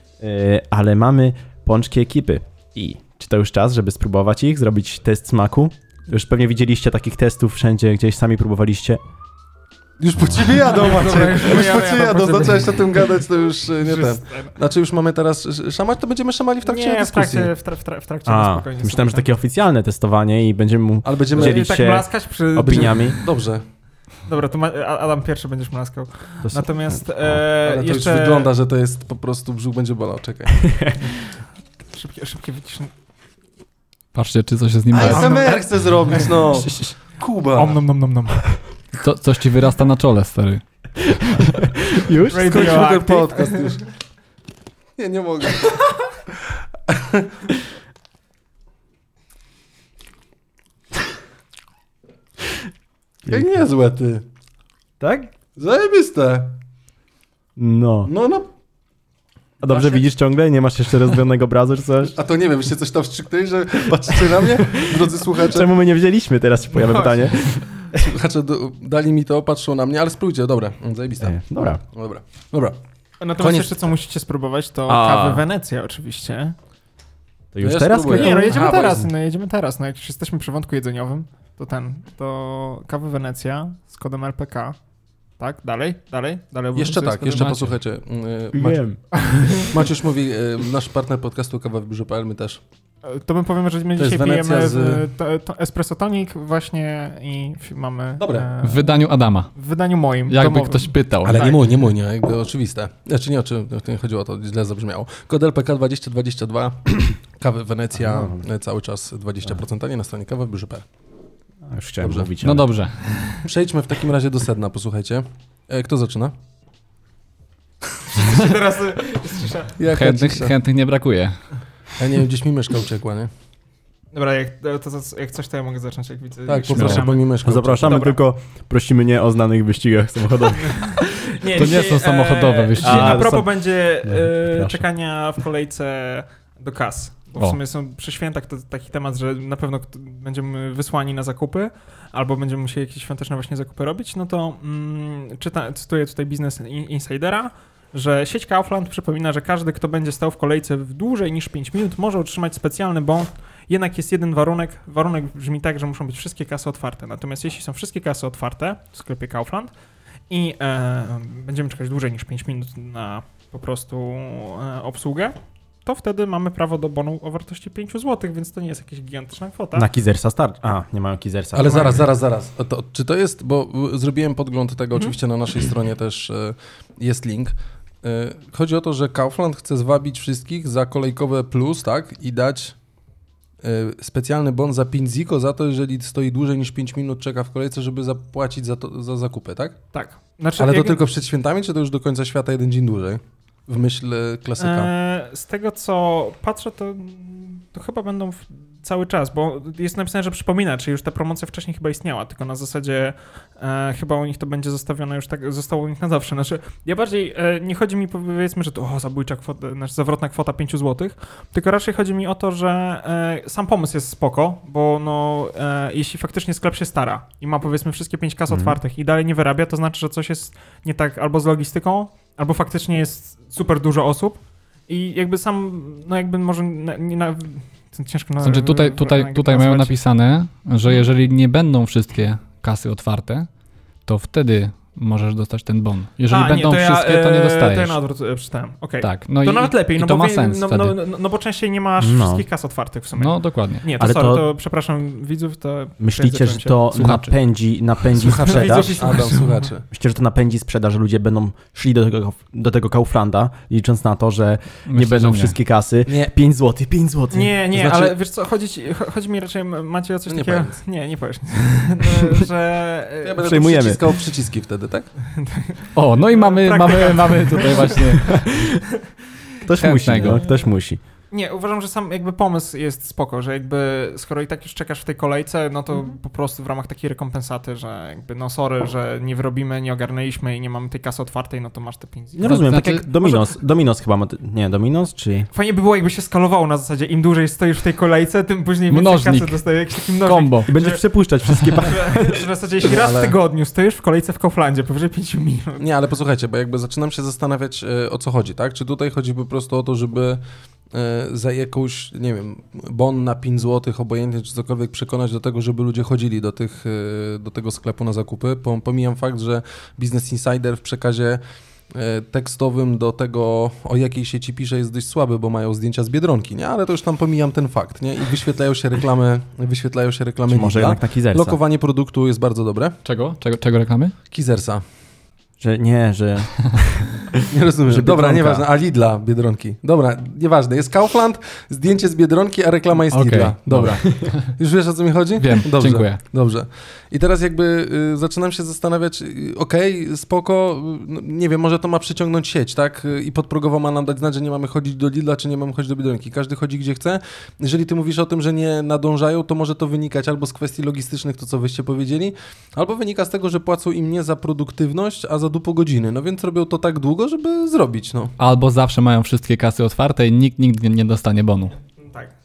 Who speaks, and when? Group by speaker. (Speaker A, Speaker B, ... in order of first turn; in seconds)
Speaker A: 0.2-9.0, 18.2-23.2, 26.4-27.0, 30.6-31.0, 41.4-42.9, 53.3-53.5, 55.0-55.3, 57.6-58.1, 59.6-62.1, 64.1-68.0, 71.2-71.8, 74.9-75.5, 77.5-79.0, 88.5-89.3, 108.0-108.4, 111.7-112.7, 127.4-130.9, 132.8-133.5, 134.0-134.8, 169.8-172.1, 218.5-218.8, 242.0-242.4, 244.0-244.5, 246.0-249.2, 249.9-257.6, 263.4-264.0, 268.2-268.8, 269.6-271.0, 282.3-285.5, 290.7-292.5, 320.5-321.6, 325.6-328.7
Speaker B: 10.0-17.5, 21.0-21.7, 22.7-23.6, 27.6-30.7, 34.9-37.8, 42.3-43.8, 45.0-46.0, 46.9-47.3, 53.3-54.2, 55.5-56.6, 58.0-58.5, 59.7-60.0, 62.1-65.7, 67.9-72.8, 73.4-73.8, 77.6-79.0, 86.7-88.8, 89.6-92.6, 94.0-95.0, 98.2-98.5, 101.2-110.8, 112.0-112.3, 113.4-116.3, 119.8-120.5, 122.0-123.3, 126.5-128.1, 171.5-182.7, 183.6-189.8, 190.6-194.9, 248.2-249.8, 257.7-258.1, 260.3-260.8, 263.2-265.1, 292.8-293.4, 295.8-300.4, 300.9-311.4, 311.9-323.0, 324.3-324.8, 327.5-358.3
Speaker C: 10.6-12.8, 13.8-14.5, 16.6-19.2, 21.4-23.2, 24.3-28.5, 31.9-32.9, 35.0-36.4, 37.5-38.4, 42.3-43.8, 66.7-67.7, 73.2-76.5, 78.1-84.8, 85.4-87.4, 89.3-89.7, 93.0-99.0, 99.5-101.6, 118.1-119.7, 124.1-128.2, 130.7-159.7, 160.3-169.9, 189.9-191.0, 194.6-230.0, 236.3-247.0, 248.3-249.7, 257.3-263.6, 265.4-268.0, 270.2-270.7, 271.3-282.7, 285.5-291.0, 291.8-295.8, 361.9-362.3
Speaker D: 34.1-35.5, 38.9-41.7, 87.2-87.8, 98.6-99.5, 100.3-101.5, 112.4-113.1, 119.9-121.3, 126.7-127.1, 131.5-133.4, 228.4-233.5, 234.1-238.0, 239.0-241.0, 243.2-243.8, 246.9-247.3, 254.9-255.6, 265.9-268.4, 269.8-270.4, 282.4-283.4, 288.9-289.6, 290.2-290.7, 323.0-324.1, 333.1-334.6, 335.4-336.2, 358.4-361.8